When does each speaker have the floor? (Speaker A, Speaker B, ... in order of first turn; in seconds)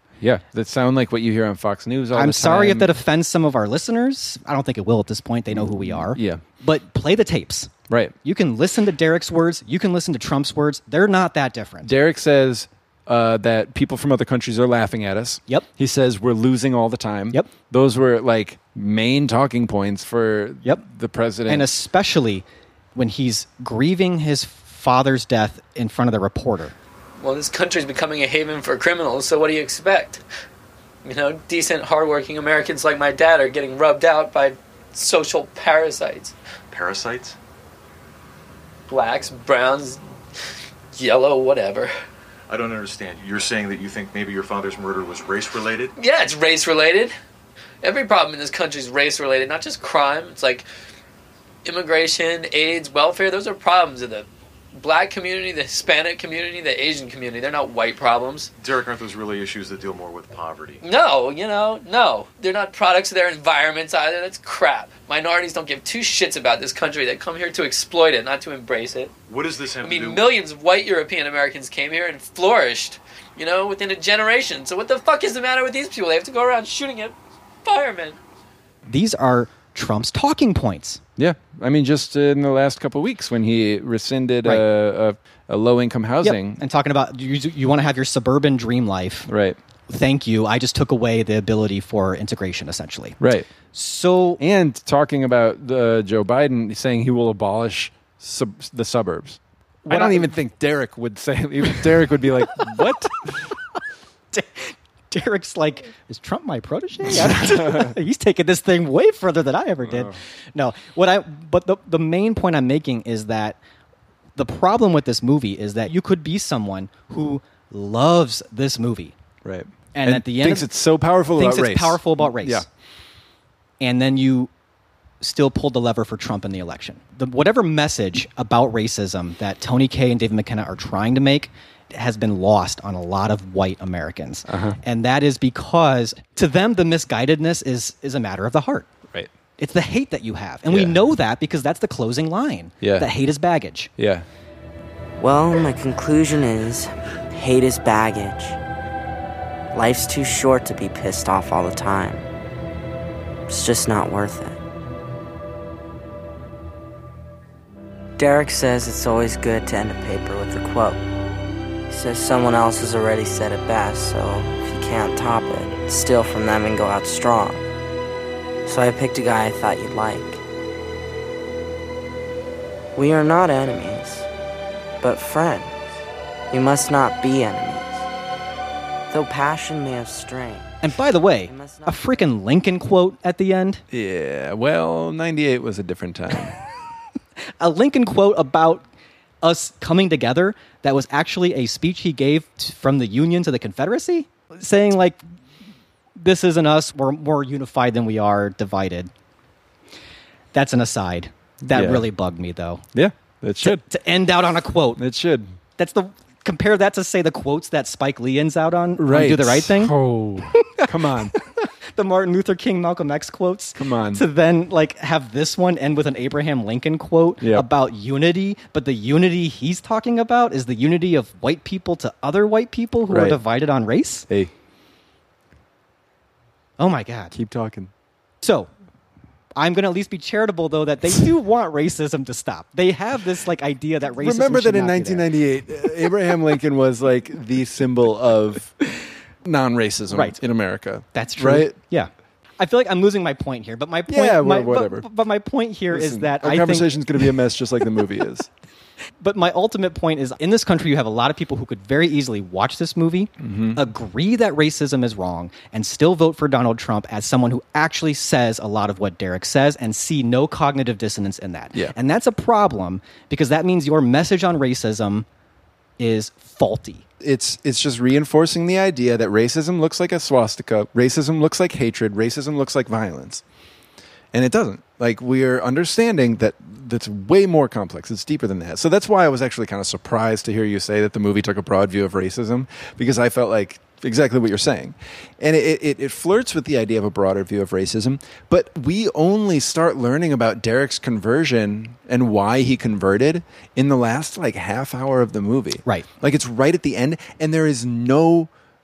Speaker A: 0.2-2.9, 5.5-6.4, 7.9-8.2, 11.8-21.7, 81.2-86.6, 89.3-89.6, 93.2-93.5, 94.4-103.4, 107.1-108.0, 109.8-110.2, 119.4-122.7, 134.5-134.8, 140.7-141.0, 142.8-143.1, 144.0-144.3, 183.9-186.5, 201.7-202.1, 202.9-203.8, 205.0-205.5, 209.0-211.3, 213.8-214.2, 217.4-217.7, 223.1-223.4, 227.3-227.9, 234.2-238.7, 239.4-241.8, 244.1-245.1, 245.9-248.5, 253.4-253.8, 267.2-273.4, 274.3-298.5
Speaker B: 2.1-7.7, 8.2-11.9, 21.5-22.4, 22.9-26.7, 78.9-81.0, 86.2-89.3, 89.9-93.2, 93.7-94.4, 99.9-100.4, 104.3-113.6, 114.4-119.1, 119.9-120.7, 121.3-122.7, 123.8-124.5, 125.2-138.9, 139.6-143.9, 180.8-183.8, 187.6-188.8, 189.4-195.2, 196.2-199.1, 200.5-202.8, 203.6-205.0, 205.8-209.9, 210.5-224.3, 226.8-227.4, 228.4-228.7, 229.6-235.3, 240.1-240.4, 241.1-247.0, 249.2-265.3, 266.0-267.1
Speaker C: 27.2-30.2, 31.0-36.3, 38.9-40.0, 40.9-41.9, 46.0-47.1, 47.8-50.7, 51.6-58.5, 60.8-69.1, 69.8-78.2
Speaker D: 36.7-37.4, 42.5-45.9, 58.6-60.8, 69.3-70.3
Speaker E: 145.2-148.6, 149.7-152.3, 153.5-154.6, 158.2-161.0, 161.9-167.7, 168.7-170.4, 172.9-174.3, 175.0-178.1, 179.1-180.8, 181.4-182.2